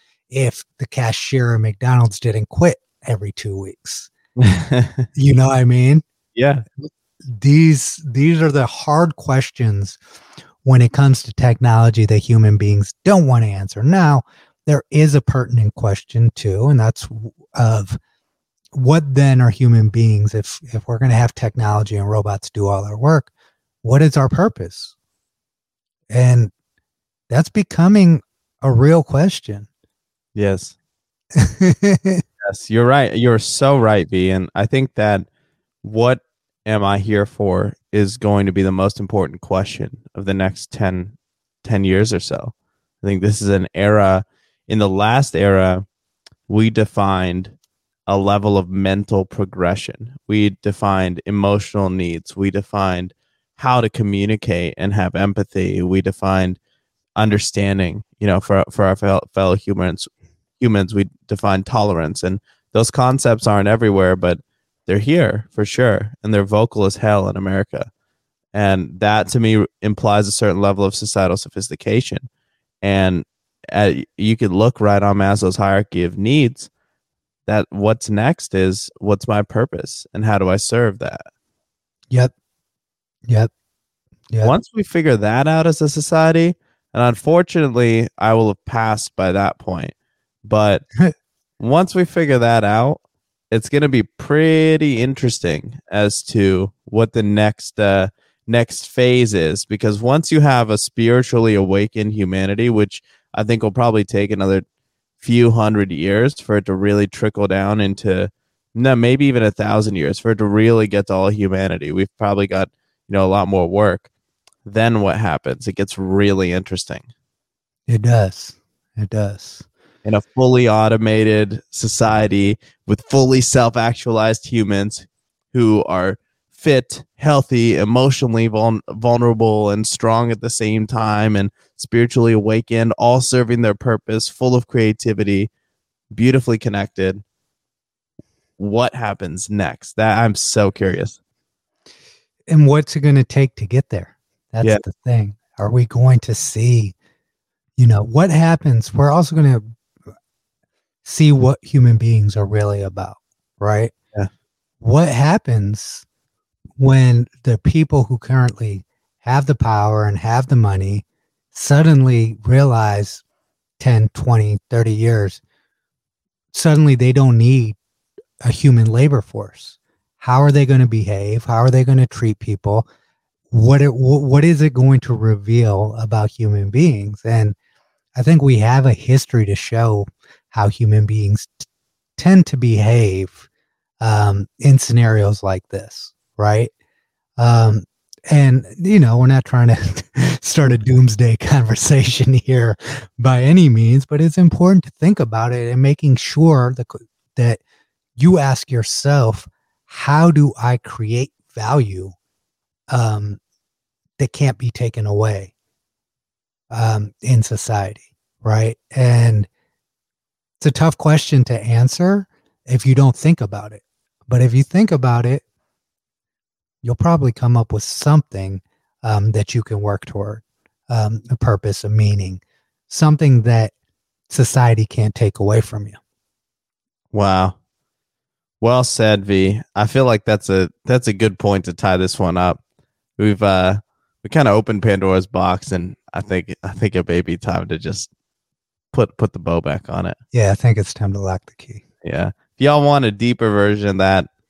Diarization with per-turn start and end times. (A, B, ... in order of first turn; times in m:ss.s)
0:00.3-0:04.1 A
0:04.4-0:05.1 B
0:05.1-0:06.0 A
0:06.3-0:06.9 B
0:07.2-0:10.0 A
0:10.6-0:18.0 A
0:18.7-0:23.3 A
0:23.8-0:24.9 A
0:26.1-0:26.5 A
0:27.3-0:29.7 A
0:30.3-0:30.7 B
0:31.3-0:32.2 A
0:32.4-0:35.2 B
0:35.8-0:45.8 B
0:46.5-0:47.5 B
0:48.1-0:56.6 B
0:57.2-1:07.9 B
1:08.5-1:12.3 B
1:12.8-1:16.7 B
1:17.5-1:21.3 B
1:24.4-1:29.9 B
1:30.4-1:30.8 B
1:31.6-1:44.6 B
1:45.2-1:54.0 B
1:54.6-1:57.0 B
1:57.9-1:59.6 A
2:00.0-2:15.5 B
2:16.1-2:17.2 B
2:18.6-2:21.2 B
2:22.5-2:26.9 A
2:27.8-2:29.7 A
2:31.0-2:33.9 A
2:34.8-2:36.0 A
2:36.8-2:43.2 A
2:43.8-2:45.4 A
2:46.5-2:47.8 A
2:48.4-2:52.9 A
2:53.5-2:57.5 A
2:58.1-3:03.4 A
3:04.0-3:06.7 A
3:07.4-3:17.6 A
3:18.2-3:22.1 A
3:22.9-3:23.4 A
3:24.2-3:25.5 A
3:26.7-3:29.5 A
3:30.6-3:35.4 A
3:36.8-3:43.7 A
3:44.3-3:46.0 A
3:47.1-3:47.6 B
3:48.6-3:52.6 B
3:53.2-3:58.1 B
3:58.9-4:00.2 B
4:00.3-4:01.8 A
4:02.0-4:04.3 B